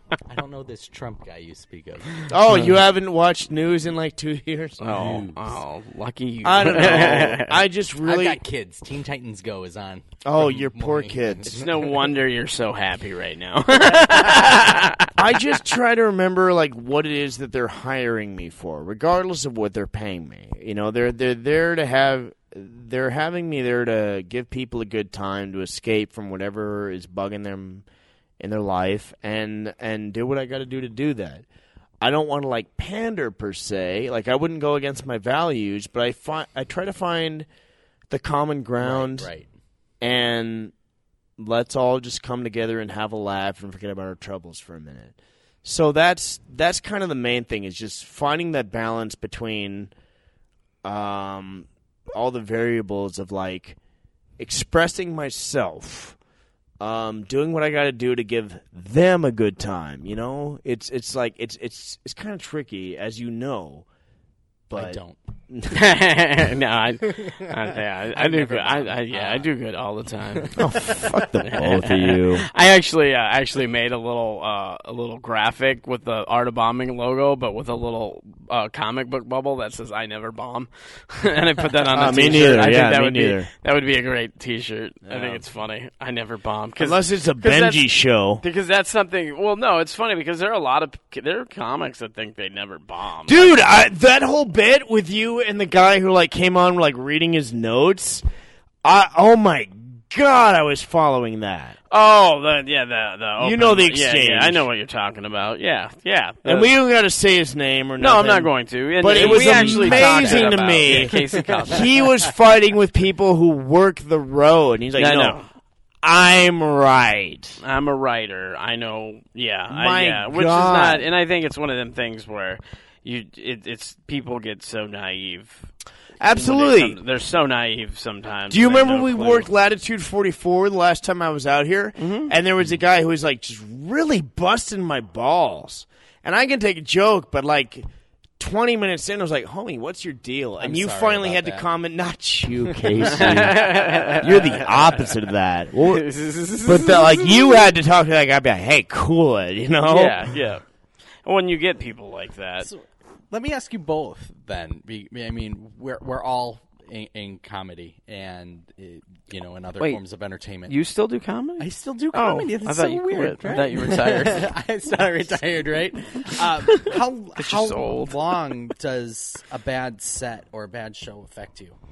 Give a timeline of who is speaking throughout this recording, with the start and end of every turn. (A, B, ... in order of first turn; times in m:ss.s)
0:00.2-0:02.2 A
0:02.3-0:04.8 B
0:04.8-0:07.6 C
0:04.9-0:05.6 A
0:06.4-0:08.4 B
0:08.0-0:11.5 A
0:10.2-0:11.7 B
0:11.5-0:15.1 C
0:15.2-0:27.8 B
0:28.4-0:31.4 B
0:32.0-0:37.5 B
0:38.1-0:39.3 B
0:38.8-0:39.5 A
0:40.0-0:40.7 B
0:41.4-0:49.9 B
0:50.8-0:53.8 B
0:54.4-0:56.2 B
0:56.8-1:03.8 B
1:04.7-1:05.0 B
1:04.7-1:05.2 A
1:05.5-1:05.9 B
1:05.7-1:10.7 C
1:07.2-1:07.5 A
1:08.1-1:09.5 A
1:10.3-1:11.4 A
1:10.6-1:12.4 B
1:11.4-1:27.8 C
1:21.9-1:23.5 B
1:25.1-1:25.4 B
1:26.8-1:28.4 B
1:28.4-1:33.6 C
1:33.3-1:38.2 B
1:38.8-1:41.8 B
1:41.9-1:46.7 C
1:43.4-1:44.6 B
1:46.4-1:55.4 B
1:48.0-1:51.9 C
1:49.1-1:52.2 A
1:55.0-1:55.4 C
1:56.0-1:57.6 B
1:57.6-2:05.6 C
1:59.7-2:01.1 B
2:06.2-2:07.0 B
2:06.3-2:09.5 C
2:08.5-2:17.9 B
2:12.0-2:12.3 C
2:18.4-2:26.0 B
2:20.6-2:21.6 A
2:22.9-2:24.4 A
2:23.0-2:25.2 C
2:25.8-2:27.6 C
2:26.6-2:30.2 B
2:29.8-2:30.6 C
2:31.2-2:32.7 C
2:32.6-2:40.7 A
2:40.7-2:44.5 C
2:41.6-2:51.8 A
2:46.6-2:48.2 C